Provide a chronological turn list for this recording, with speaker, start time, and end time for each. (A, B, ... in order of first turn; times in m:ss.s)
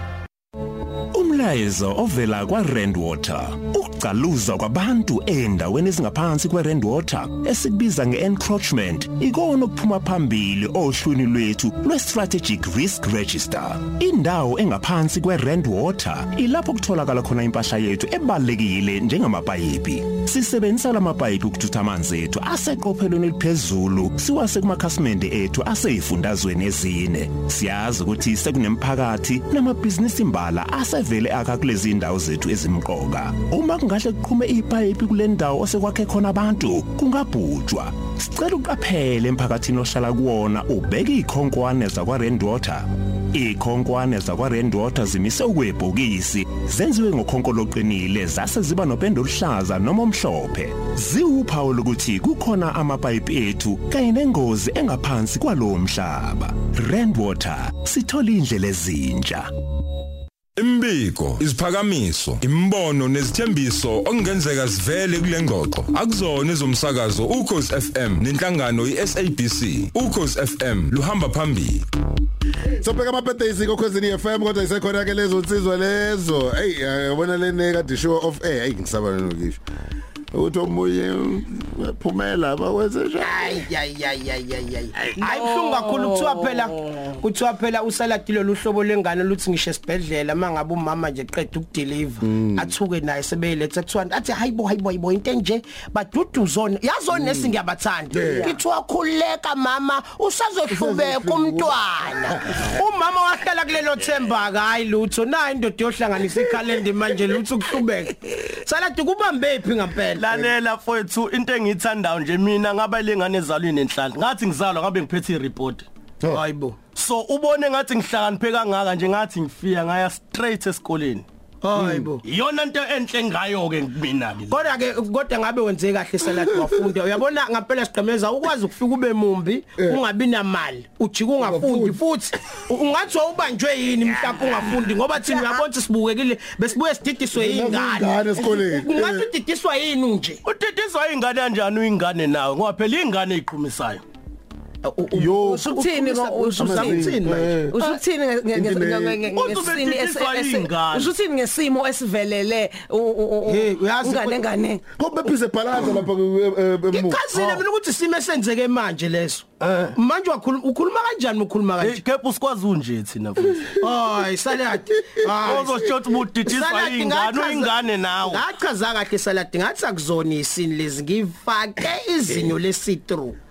0:01.1-0:59.4 A
1:00.6-1:11.8 B
1:12.8-1:19.6 C
1:20.3-1:23.5 C
1:23.2-1:50.2 D
1:25.2-1:27.1 E
1:32.2-1:32.7 C
1:37.1-1:37.5 C
1:38.1-1:38.6 C
1:40.7-1:41.8 C
1:50.2-1:55.8 F
1:56.3-1:56.8 D
1:56.9-2:01.2 F
2:01.6-2:02.2 D
2:01.7-2:02.1 C
2:02.2-2:04.6 F
2:04.5-2:20.4 D
2:11.4-2:12.0 C
2:15.2-2:15.6 E
2:17.3-2:19.2 C
2:20.4-2:24.0 F
2:24.8-2:27.6 D
2:25.1-2:25.6 C
2:25.4-2:27.2 E
2:26.6-2:28.0 C
2:27.7-2:34.8 E
2:28.5-2:29.3 C
2:29.3-2:31.1 F
2:33.5-2:34.4 D
2:35.0-2:37.2 C
2:36.9-2:42.0 D
2:37.3-2:37.6 F
2:39.6-2:39.9 F
2:41.8-2:43.7 F
2:43.8-2:45.8 D
2:45.4-2:48.4 F
2:46.4-2:53.4 D